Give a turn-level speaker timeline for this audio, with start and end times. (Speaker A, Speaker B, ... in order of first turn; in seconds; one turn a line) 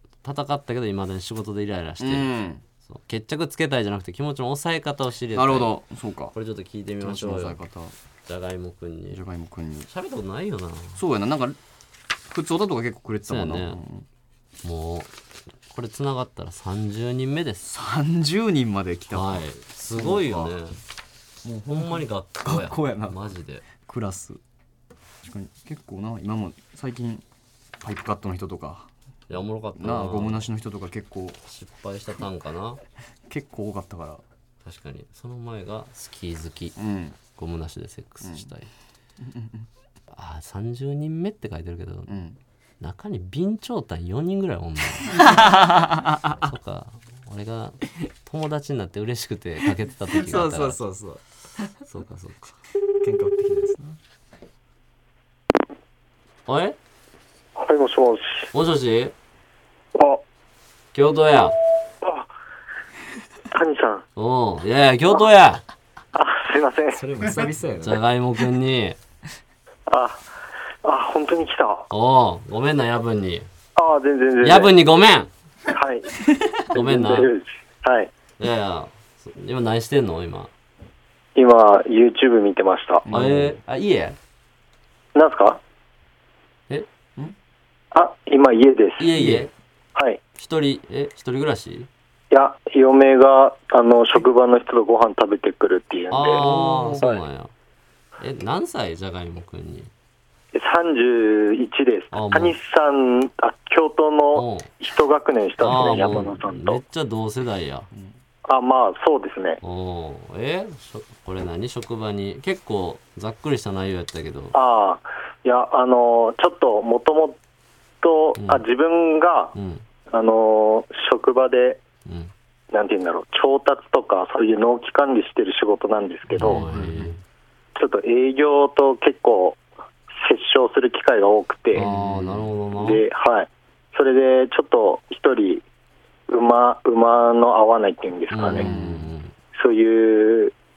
Speaker A: 0.2-2.3
Speaker B: 2.0-2.6
Speaker A: 2.8-5.8
Speaker B: 5.3-6.3
Speaker A: 6.3-7.6
Speaker B: 7.0-7.9
Speaker A: 8.3-9.2
Speaker B: 9.1-9.9
Speaker A: 9.9-11.0
Speaker B: 11.0-11.6
Speaker B: 12.3-14.1
Speaker A: 13.3-13.8
Speaker A: 14.6-15.1
Speaker A: 15.7-17.7
Speaker B: 17.6-19.4
Speaker A: 19.1-20.8
Speaker B: 19.9-20.6
Speaker B: 21.4-23.2
Speaker A: 21.7-23.7
Speaker B: 23.7-24.4
Speaker B: 25.2-27.2
Speaker B: 27.8-28.9
Speaker A: 29.3-30.5
Speaker B: 29.8-31.4
Speaker A: 31.4-32.8
Speaker B: 33.3-34.2
Speaker A: 34.6-36.8
Speaker B: 36.8-37.2
Speaker A: 37.3-38.7
Speaker B: 39.2-39.7
Speaker A: 40.1-42.1
Speaker B: 42.1-42.4
Speaker A: 42.8-45.4
Speaker B: 45.1-46.5
Speaker A: 46.4-50.8
Speaker B: 50.1-51.7
Speaker A: 51.9-52.5
Speaker B: 53.0-54.0
Speaker A: 56.5-56.8
Speaker C: 57.6-58.5
Speaker A: 58.5-59.1
Speaker C: 60.0-60.2
Speaker A: 60.9-61.6
Speaker C: 62.0-62.3
Speaker C: 63.5-64.0
Speaker A: 64.2-65.6
Speaker C: 66.2-67.0
Speaker B: 66.9-68.0
Speaker A: 67.8-69.0
Speaker C: 69.9-70.2
Speaker C: 70.8-71.9
Speaker A: 71.9-73.5
Speaker C: 73.8-74.7
Speaker A: 74.4-75.3
Speaker C: 75.7-78.1
Speaker A: 76.7-77.3
Speaker A: 78.4-80.5
Speaker C: 81.4-83.1
Speaker B: 83.0-83.6
Speaker A: 83.1-84.2
Speaker C: 85.2-85.6
Speaker C: 87.9-89.3
Speaker A: 89.0-89.5
Speaker B: 89.1-89.5
Speaker C: 90.0-90.2
Speaker A: 90.4-91.9
Speaker C: 92.3-97.2
Speaker A: 96.1-97.5
Speaker B: 96.4-97.0
Speaker A: 98.2-99.9
Speaker C: 100.5-106.8
Speaker A: 102.1-102.5
Speaker A: 104.3-104.7
Speaker A: 105.6-107.9
Speaker C: 108.5-109.6
Speaker A: 109.6-114.5
Speaker C: 114.5-117.4
Speaker C: 118.0-119.5
Speaker A: 118.4-118.6
Speaker A: 119.5-119.8
Speaker C: 120.1-121.8
Speaker A: 122.1-122.3
Speaker C: 122.7-126.6
Speaker A: 126.4-127.2
Speaker B: 126.4-127.1
Speaker C: 127.8-129.6
Speaker C: 130.2-131.8
Speaker A: 131.7-133.0
Speaker B: 131.8-132.5
Speaker C: 132.8-135.6
Speaker C: 136.3-138.7
Speaker A: 138.3-139.3
Speaker B: 138.5-139.1
Speaker C: 139.5-140.5